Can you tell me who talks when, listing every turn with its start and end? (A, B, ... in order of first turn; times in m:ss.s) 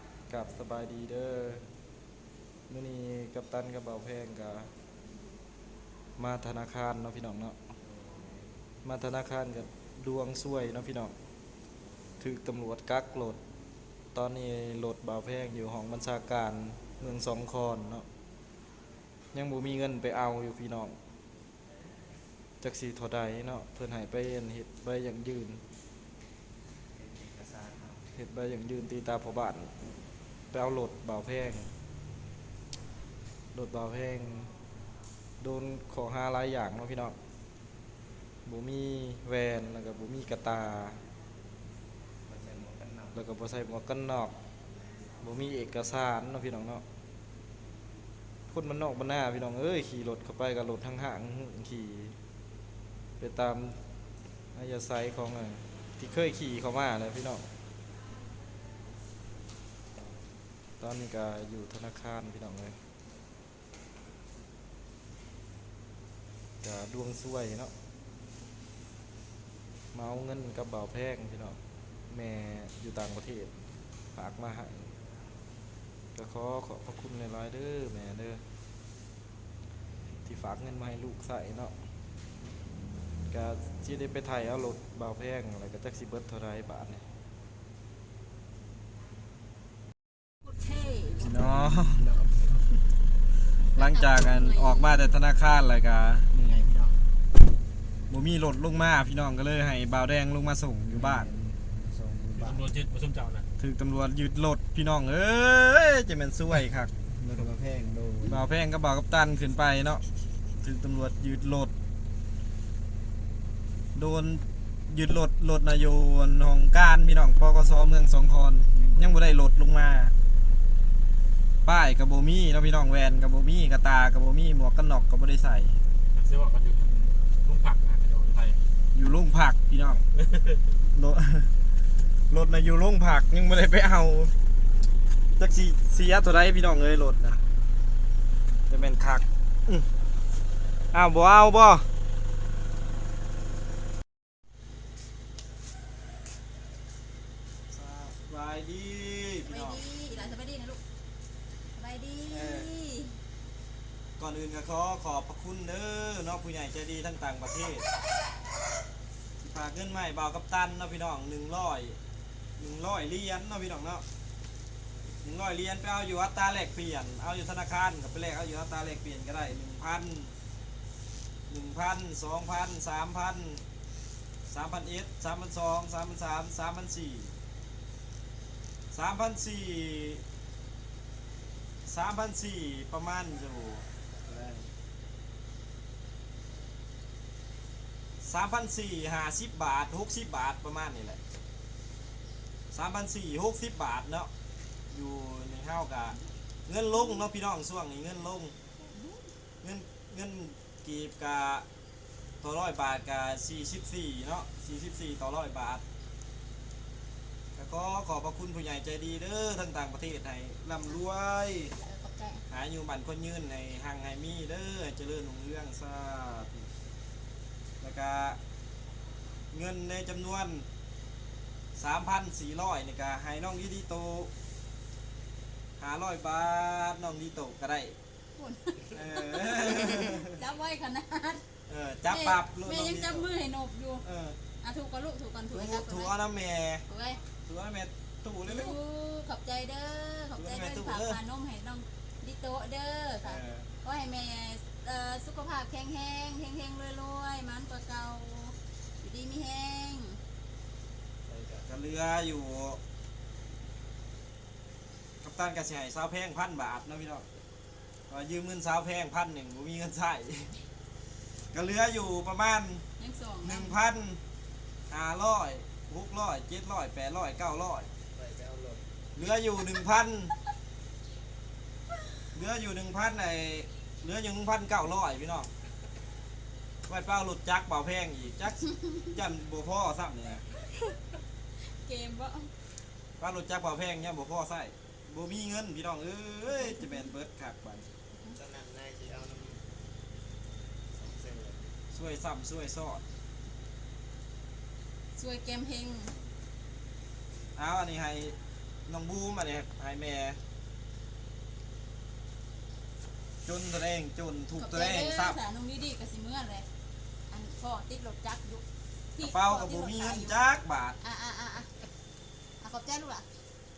0:00.3-0:01.7 A
0:02.7-0:04.7 A
0:06.2-0:07.7 A
0:08.8-0:11.1 A
0:12.2-0:13.4 A
0:14.1-0:18.1 A
0:19.3-0:21.0 A
0:22.6-0:25.6 A
0:28.1-0:29.7 A
0:30.5-0:31.7 A
0:33.5-0:34.5 A
0:35.4-0:37.2 A
0:38.4-0:41.0 A
0:42.3-0:43.2 B
0:43.1-0:44.4 A
0:45.2-0:46.8 A
0:48.5-0:52.2 A
0:53.2-0:53.8 A
0:54.5-0:57.5 A
1:00.8-1:02.8 A
1:06.6-1:07.7 A
1:09.9-1:11.6 A
1:12.1-1:13.5 A
1:14.1-1:14.9 A
1:16.1-1:18.4 A
1:20.2-1:21.7 A
1:23.3-1:27.1 A
1:30.5-1:31.3 C
1:31.2-1:32.1 A
1:31.8-1:32.6 B
1:33.6-1:35.1 C
1:33.7-1:36.3 A
1:36.3-1:36.9 B
1:38.1-1:41.3 A
1:40.9-1:42.7 B
1:42.3-1:43.5 D
1:43.6-1:46.9 A
1:47.0-1:48.4 B
1:48.2-1:50.0 A
1:50.6-1:51.7 A
1:53.9-2:00.1 A
2:01.6-2:05.8 A
2:06.1-2:08.6 D
2:08.9-2:10.0 A
2:10.9-2:11.5 A
2:12.3-2:14.3 A
2:15.4-2:17.4 A
2:18.7-2:19.9 A
2:20.9-2:21.9 A
2:27.7-2:30.3 A
2:29.4-2:30.8 C
2:31.7-2:33.2 C
2:32.3-2:32.7 A
2:34.2-2:37.9 A
2:39.4-2:42.0 A
2:42.6-2:44.0 A
2:45.2-2:50.3 A
2:51.5-2:53.6 A
2:54.5-2:57.3 A
2:58.9-3:00.2 A
3:01.8-3:04.7 A
3:08.2-3:11.2 A
3:12.7-3:14.3 A
3:14.9-3:18.5 A
3:18.8-3:19.3 C
3:19.6-3:21.6 A
3:22.4-3:25.8 A
3:27.6-3:31.8 A
3:31.7-3:32.4 C
3:32.5-3:36.7 A
3:37.8-3:38.4 A
3:39.5-3:40.7 A
3:41.7-3:44.3 A
3:45.8-3:48.0 A
3:48.4-3:51.4 C
3:48.9-3:50.4 A
3:51.7-3:53.3 A
3:52.1-3:54.0 C
3:54.0-3:54.4 A
3:54.6-3:56.1 C
3:55.5-3:56.8 A
3:56.9-3:57.2 C
3:57.4-3:58.8 A
3:58.4-4:10.2 C
4:00.4-4:01.2 A
4:03.2-4:03.7 A
4:11.2-4:11.7 B
4:11.6-4:12.8 A
4:15.2-4:17.3 A
4:18.1-4:20.6 A
4:21.5-4:22.8 A
4:23.0-4:23.8 C
4:23.4-4:24.2 A
4:24.9-4:27.9 A
4:28.1-4:28.9 B
4:29.1-4:30.3 A
4:32.3-4:35.5 A
4:36.8-4:40.4 A
4:41.6-4:42.5 C
4:43.2-4:47.9 A
4:46.5-4:47.1 C
4:48.3-4:49.6 B
4:50.9-4:51.8 B
4:51.9-4:53.0 A
4:55.1-4:56.1 C
4:57.6-4:58.4 A
4:58.9-5:00.4 A
5:03.4-5:05.4 A
5:04.5-5:06.6 C
5:07.3-5:08.6 C
5:09.1-5:10.4 C
5:09.2-5:11.0 A
5:11.0-5:11.7 C
5:12.6-5:13.2 C